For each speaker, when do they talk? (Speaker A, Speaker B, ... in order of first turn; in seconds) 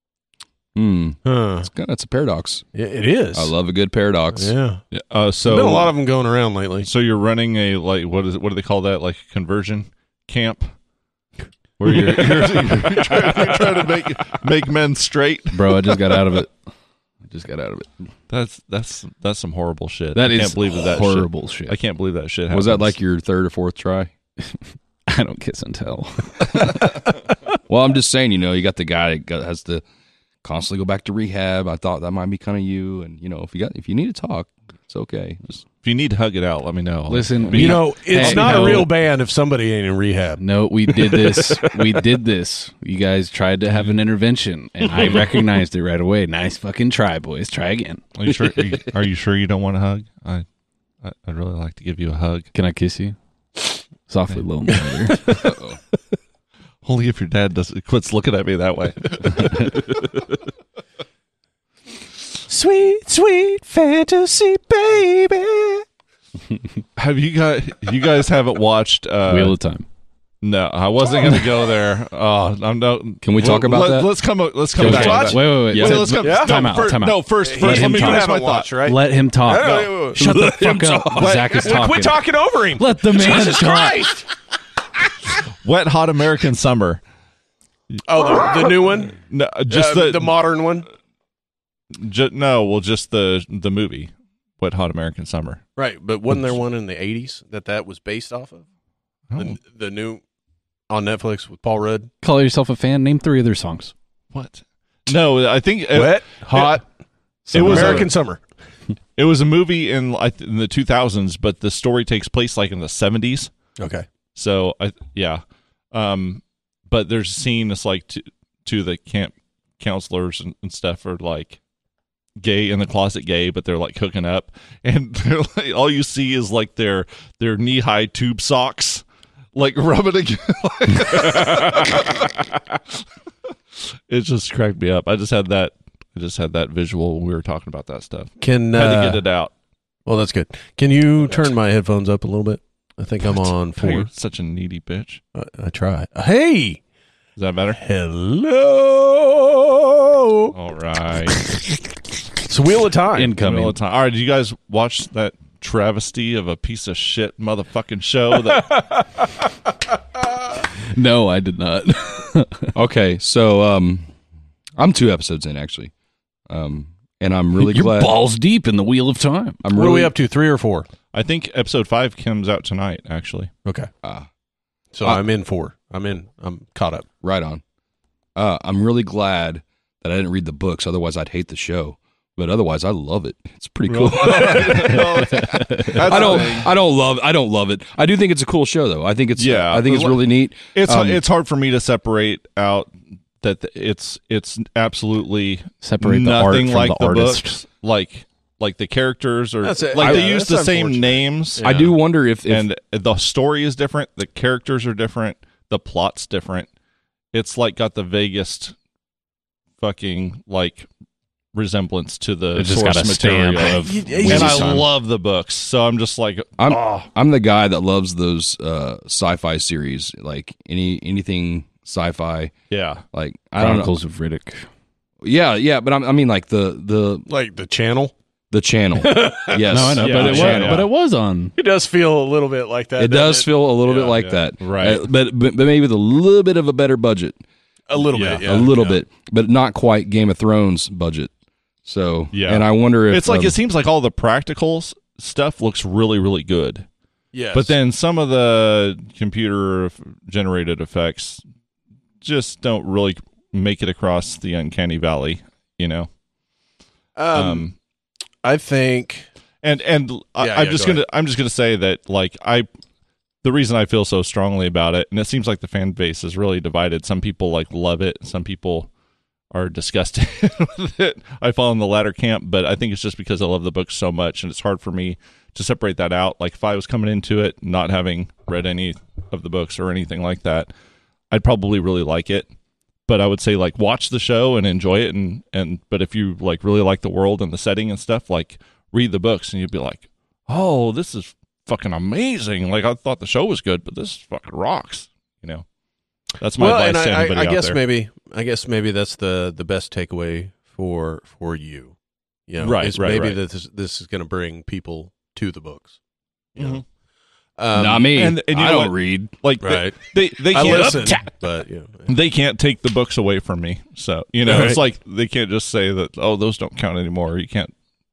Speaker A: 0.8-2.6, 3.3-4.5, 22.5-24.1, 27.7-29.8, 30.4-35.4, 48.3-48.8, 55.3-55.8, 73.2-74.1, 74.9-76.1, 80.2-81.5, 162.8-164.1, 164.8-165.9, 166.5-168.1, 169.6-170.1, 177.2-177.6, 178.4-191.2, 200.0-200.3, 201.6-202.7, 216.6-222.5, 223.1-223.9, 225.2-227.3, 228.5-230.8, 233.0-237.4, 238.4-241.3, 241.8-243.6, 307.7-309.3
Speaker B: 1.2-1.7, 2.7-3.5, 4.3-4.8, 5.5-6.9, 37.5-41.7, 62.5-65.8, 73.4-73.8, 74.8-75.4, 76.2-76.6, 77.4-80.2, 81.1-84.3, 88.1-89.2, 89.7-90.9, 95.8-98.7, 99.4-100.2, 100.9-102.1, 105.9-106.8, 107.5-108.4, 113.8-114.1, 138.4-139.2, 140.1-144.1, 145.3-146.8, 147.8-150.5, 152.4-153.3, 169.7-170.9, 173.7-173.9, 174.9-177.1, 184.0-185.0, 186.1-186.4, 199.6-201.9, 213.6-214.9, 227.3-228.1, 228.9-230.7, 231.6-233.5, 237.9-239.0, 247.3-247.8, 257.2-257.7, 258.4-259.3, 260.4-261.0, 296.6-301.9, 302.5-306.0, 307.6-308.2, 309.6-312.1, 314.5-314.8
Speaker C: 4.9-5.9, 6.8-10.7, 11.8-16.0, 18.3-22.9, 35.5-38.9, 44.9-45.3, 48.2-50.5, 51.0-52.5, 56.8-60.0, 67.0-69.5, 70.4-78.9, 79.6-80.2, 81.2-81.8, 85.3-87.0, 88.0-88.8, 89.3-90.4, 91.9-95.6, 99.3-99.6, 104.3-106.8, 107.5-108.1, 109.2-113.5, 114.4-115.4, 115.9-121.6, 122.4-129.0, 129.6-132.8, 134.1-139.5, 143.2-145.2, 147.4-147.8, 150.5-151.6, 153.2-158.9, 171.1-173.5, 183.9-186.7, 189.4-201.9, 202.5-206.7, 207.3-208.8, 209.8-210.9, 211.5-217.0, 222.7-223.0, 230.0-230.9, 233.9-235.0, 238.1-238.8, 242.3-246.9, 247.5-251.4, 252.2-256.1, 257.3-257.7, 259.6-262.7, 263.4-268.9, 269.5-280.7, 281.3-282.5, 283.1-295.6, 296.4-297.8, 302.6-303.4, 306.6-306.8, 308.1-311.3, 312.1-317.7
Speaker D: 15.5-16.5, 17.3-17.9, 20.1-21.8, 25.1-26.9, 37.1-38.9, 40.4-48.0, 52.5-53.2, 54.1-55.5, 69.3-69.9, 74.8-78.3, 78.8-82.2, 82.8-84.1, 102.2-103.9, 107.5-108.1, 153.2-153.8, 160.9-162.7, 167.6-169.6, 185.6-185.9, 195.8-197.6, 212.6-214.9, 223.6-224.7, 229.7-231.6